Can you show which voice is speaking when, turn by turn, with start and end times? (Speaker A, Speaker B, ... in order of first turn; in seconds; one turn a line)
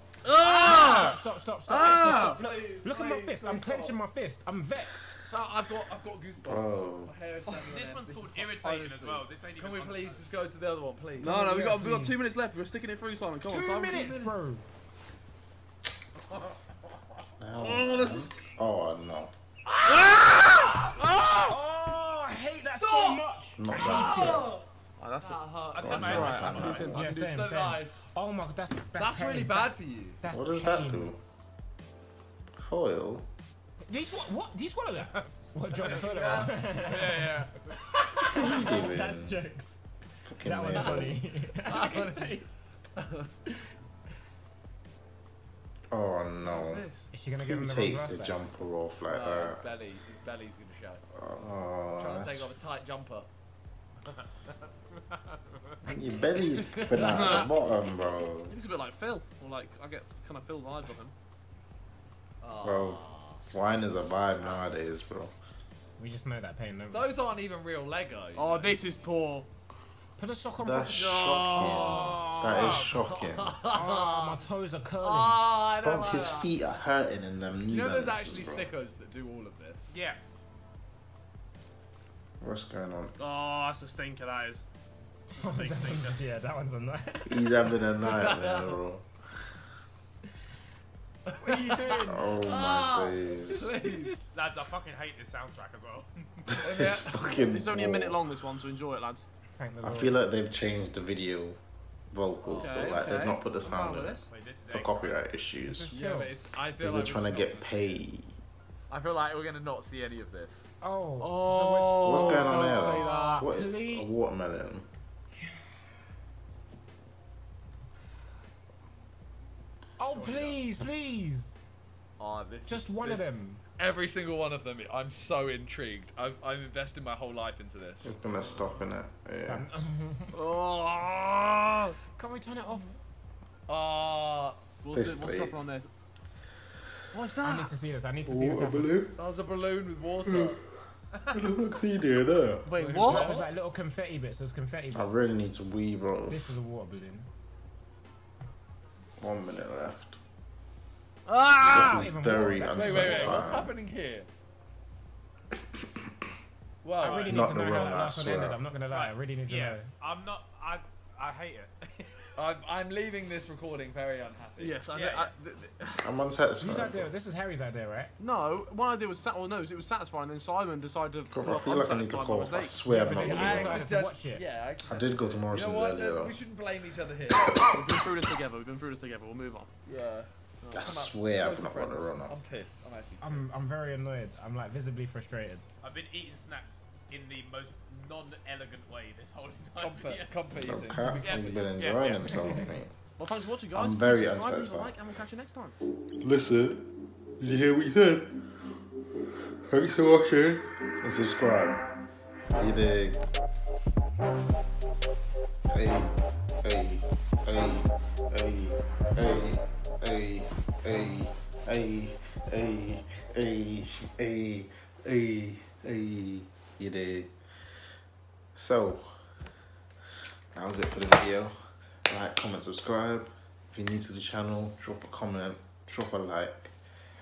Speaker A: 0.2-2.4
Speaker B: 0.4-5.0
Speaker C: 0.6-1.1
Speaker C: 1.7-4.0
Speaker C: 5.3-11.4
Speaker D: 6.4-7.1
Speaker E: 7.5-10.3
Speaker A: 11.2-14.2
Speaker B: 11.3-12.2
Speaker B: 13.4-14.6
Speaker C: 13.9-14.3
Speaker D: 17.4-19.3
Speaker A: 17.5-18.5
Speaker A: 19.9-21.6
Speaker B: 21.5-24.5
Speaker C: 22.8-23.2
Speaker D: 23.6-24.5
Speaker C: 23.7-24.6
Speaker A: 25.0-27.1
Speaker C: 25.2-27.9
Speaker E: 25.7-26.9
Speaker D: 25.8-27.1
Speaker B: 26.9-31.1
Speaker C: 28.9-30.2
Speaker D: 30.3-31.2
Speaker D: 32.6-33.3
Speaker B: 33.9-37.5
Speaker E: 35.8-36.1
Speaker C: 35.9-36.5
Speaker A: 36.8-37.5
Speaker B: 38.1-39.8
Speaker D: 38.2-39.4
Speaker D: 40.3-41.2
Speaker B: 40.4-42.4
Speaker C: 41.6-43.3
Speaker D: 45.9-46.9
Speaker A: 46.4-47.1
Speaker B: 47.1-48.4
Speaker D: 47.4-49.6
Speaker C: 49.1-51.0
Speaker D: 51.1-52.5
Speaker C: 52.0-53.3
Speaker E: 54.0-55.8
Speaker D: 55.8-58.6
Speaker C: 56.5-57.2
Speaker A: 56.9-57.6
Speaker A: 58.5-61.1
Speaker C: 62.4-63.4
Speaker D: 62.6-65.3
Speaker B: 66.0-67.1
Speaker C: 66.9-68.8
Speaker A: 68.3-69.5
Speaker B: 70.2-71.0
Speaker D: 70.6-73.6
Speaker A: 70.9-72.1
Speaker E: 71.8-73.0
Speaker C: 73.0-74.5
Speaker B: 73.7-75.4
Speaker C: 75.0-76.5
Speaker D: 75.8-78.7
Speaker C: 77.7-80.0
Speaker E: 79.9-80.2
Speaker D: 82.4-83.2
Speaker A: 83.2-84.6
Speaker B: 85.3-87.7
Speaker A: 85.4-86.1
Speaker D: 87.2-89.0
Speaker C: 88.0-88.8
Speaker C: 91.3-94.3
Speaker B: 91.4-92.2
Speaker D: 92.0-93.7
Speaker E: 94.3-96.5
Speaker D: 96.5-98.2
Speaker C: 96.6-97.5
Speaker A: 96.7-99.3
Speaker B: 99.5-100.2
Speaker D: 99.8-101.6
Speaker D: 102.1-105.9
Speaker C: 102.5-103.2
Speaker A: 102.6-104.3
Speaker E: 104.3-105.2
Speaker B: 105.7-106.3
Speaker C: 105.9-108.0
Speaker D: 106.8-108.3
Speaker C: 108.9-110.7
Speaker B: 110.8-114.0
Speaker A: 111.2-113.5
Speaker D: 112.0-114.9
Speaker B: 120.0-121.5
Speaker C: 120.1-120.6
Speaker C: 122.2-128.1
Speaker B: 122.7-123.6
Speaker D: 128.0-129.7
Speaker B: 129.4-130.4
Speaker A: 130.4-131.9
Speaker B: 132.0-133.0
Speaker C: 133.7-134.6
Speaker A: 134.8-135.9
Speaker D: 134.9-135.6
Speaker A: 137.1-137.8
Speaker B: 137.4-139.0
Speaker D: 138.2-139.2
Speaker C: 139.2-140.6
Speaker D: 141.3-142.7
Speaker A: 142.7-143.4
Speaker C: 142.8-143.3
Speaker B: 142.9-145.2
Speaker D: 144.9-146.5
Speaker B: 146.3-147.3
Speaker D: 149.2-150.2
Speaker A: 151.2-152.1
Speaker D: 151.6-153.7
Speaker B: 151.7-153.6
Speaker C: 152.7-154.3
Speaker D: 155.7-156.1
Speaker C: 156.8-157.9
Speaker B: 157.0-159.9
Speaker D: 157.2-158.6
Speaker E: 158.9-162.3
Speaker C: 162.3-164.8
Speaker A: 164.6-166.1
Speaker E: 164.9-165.3
Speaker D: 166.0-167.1
Speaker B: 166.6-168.1
Speaker A: 168.2-172.8
Speaker D: 171.3-173.9
Speaker B: 172.8-174.4
Speaker C: 173.1-177.5
Speaker D: 174.8-176.3
Speaker A: 177.4-179.7
Speaker C: 179.8-183.6
Speaker A: 180.6-181.0
Speaker D: 180.7-182.3
Speaker B: 183.2-185.6
Speaker E: 185.8-190.3
Speaker C: 189.8-191.6
Speaker D: 190.5-192.9
Speaker E: 191.2-192.4
Speaker A: 193.2-195.8
Speaker D: 193.7-195.0
Speaker D: 196.1-198.5
Speaker D: 199.5-201.8
Speaker D: 202.5-203.2
Speaker D: 205.7-217.3
Speaker D: 218.5-219.2
Speaker D: 220.5-226.7